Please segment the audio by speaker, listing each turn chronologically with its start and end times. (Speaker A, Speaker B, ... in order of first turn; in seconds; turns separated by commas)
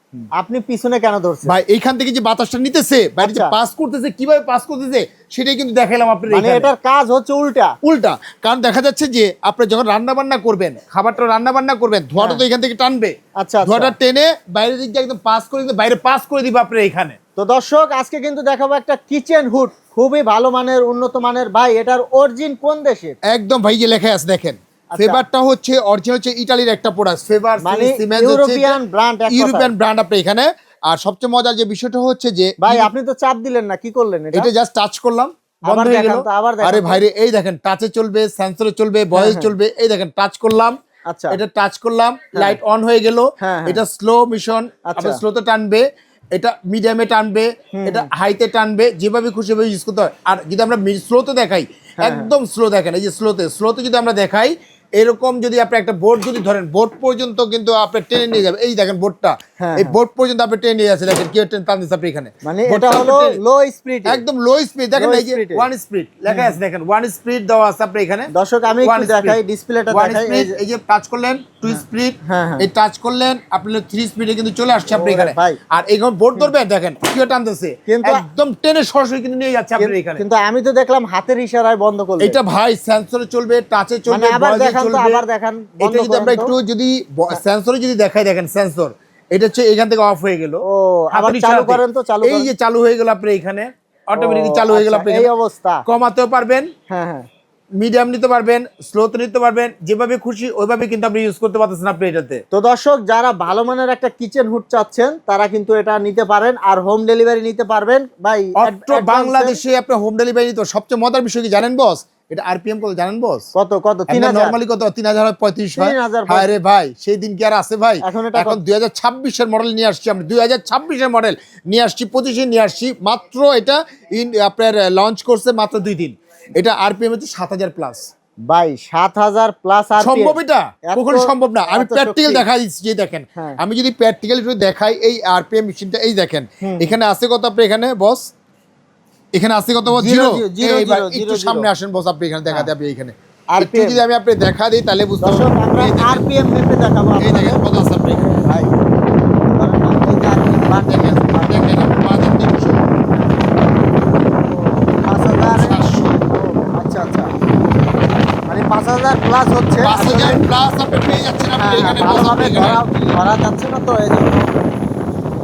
Speaker A: 0.4-1.5, Speaker B: 1.5-6.7, Speaker A: 3.2-3.5, Speaker A: 6.3-7.7, Speaker B: 7.8-17.2, Speaker A: 12.2-12.4, Speaker A: 13.4-13.9, Speaker A: 17.4-23.1, Speaker B: 23.3-28.8, Speaker A: 24.9-25.2, Speaker A: 27.6-29.7, Speaker B: 29.3-32.9, Speaker A: 32.6-34.5, Speaker B: 34.3-40.8, Speaker A: 35.7-37.0, Speaker A: 39.1-39.5, Speaker A: 41.1-41.4, Speaker B: 41.3-63.4, Speaker A: 43.4-43.8, Speaker A: 44.9-45.2, Speaker A: 47.7-48.1, Speaker A: 52.0-52.3, Speaker A: 59.6-60.0, Speaker A: 62.4-64.2, Speaker B: 64.0-68.3, Speaker A: 65.0-65.7, Speaker A: 66.3-66.5, Speaker A: 68.3-70.6, Speaker B: 68.8-69.4, Speaker B: 69.9-80.2, Speaker A: 71.7-72.7, Speaker A: 74.9-75.6, Speaker A: 77.9-78.2, Speaker A: 79.8-82.4, Speaker B: 82.2-85.2, Speaker A: 84.1-86.5, Speaker B: 85.8-90.6, Speaker A: 90.7-92.5, Speaker B: 91.1-95.3, Speaker A: 94.2-95.8, Speaker B: 95.8-96.7, Speaker A: 96.9-97.3, Speaker B: 97.8-102.4, Speaker A: 102.5-109.6, Speaker B: 108.6-113.5, Speaker A: 113.5-114.5, Speaker B: 114.1-128.1, Speaker A: 115.8-116.5, Speaker A: 118.0-118.6, Speaker A: 128.5-132.4, Speaker B: 130.0-138.3, Speaker A: 136.6-136.9, Speaker B: 139.3-146.2, Speaker A: 139.9-141.7, Speaker A: 143.5-144.0, Speaker A: 145.2-147.6, Speaker B: 147.2-148.2, Speaker A: 148.1-148.8, Speaker A: 149.4-151.7, Speaker B: 150.8-152.9, Speaker A: 154.4-157.3, Speaker B: 155.3-156.2, Speaker A: 158.5-160.4, Speaker B: 159.8-162.8, Speaker A: 161.6-164.6